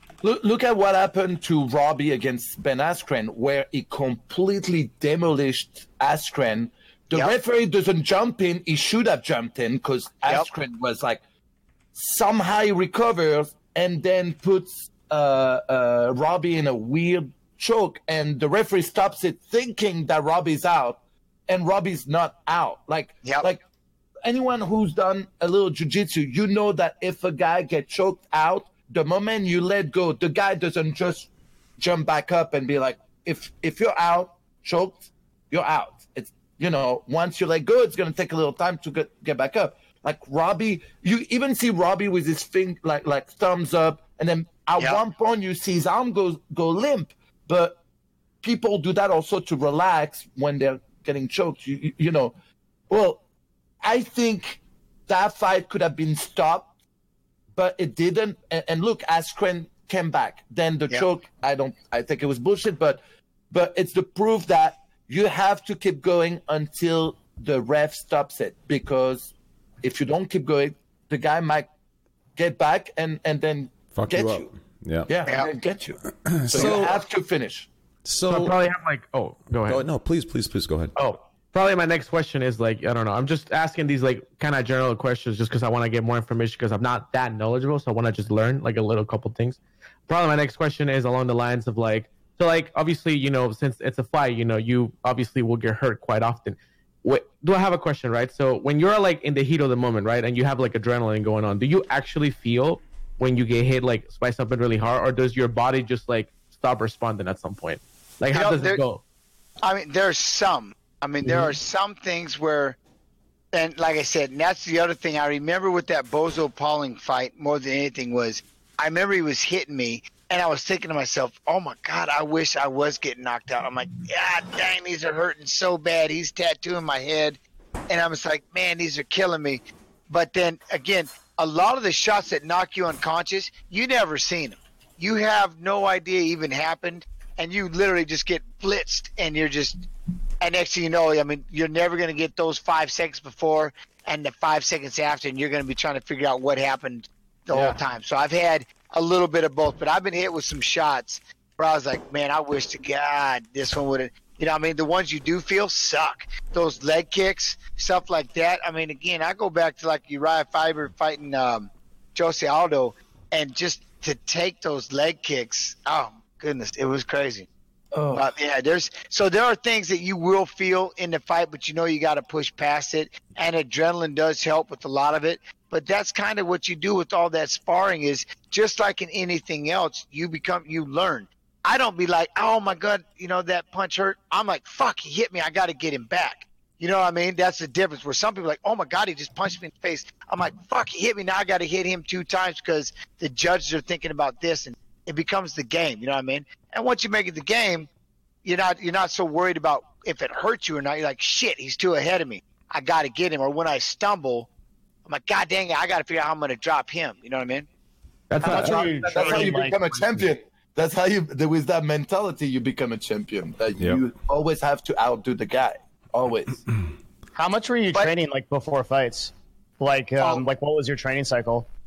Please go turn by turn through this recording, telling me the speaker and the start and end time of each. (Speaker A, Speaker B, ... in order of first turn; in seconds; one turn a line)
Speaker A: 0.2-11.2
Speaker A: 11.9-23.6
Speaker A: 24.2-47.8
Speaker A: 48.4-52.3
Speaker A: 52.9-53.2
Speaker A: 53.8-56.7
Speaker A: 57.5-63.0
Speaker A: 63.5-71.7
Speaker A: 72.3-74.5
Speaker B: 73.9-75.1
Speaker A: 75.1-77.7
Speaker B: 76.2-77.0
Speaker B: 78.0-78.6
Speaker C: 78.3-79.9
Speaker B: 79.7-80.9
Speaker C: 81.0-109.0
Speaker D: 108.3-108.8
Speaker D: 109.6-112.8
Speaker D: 113.5-139.8
Speaker D: 140.4-167.5
Speaker A: 147.5-147.8
Speaker A: 167.9-168.3
Speaker D: 168.1-197.9
Speaker D: 198.4-204.5
Speaker D: 205.1-207.7
Speaker C: 208.3-209.8
Speaker E: 208.4-210.0
Speaker A: 208.4-216.6
Speaker B: 213.8-214.0
Speaker E: 217.3-221.7
Speaker A: 220.2-220.4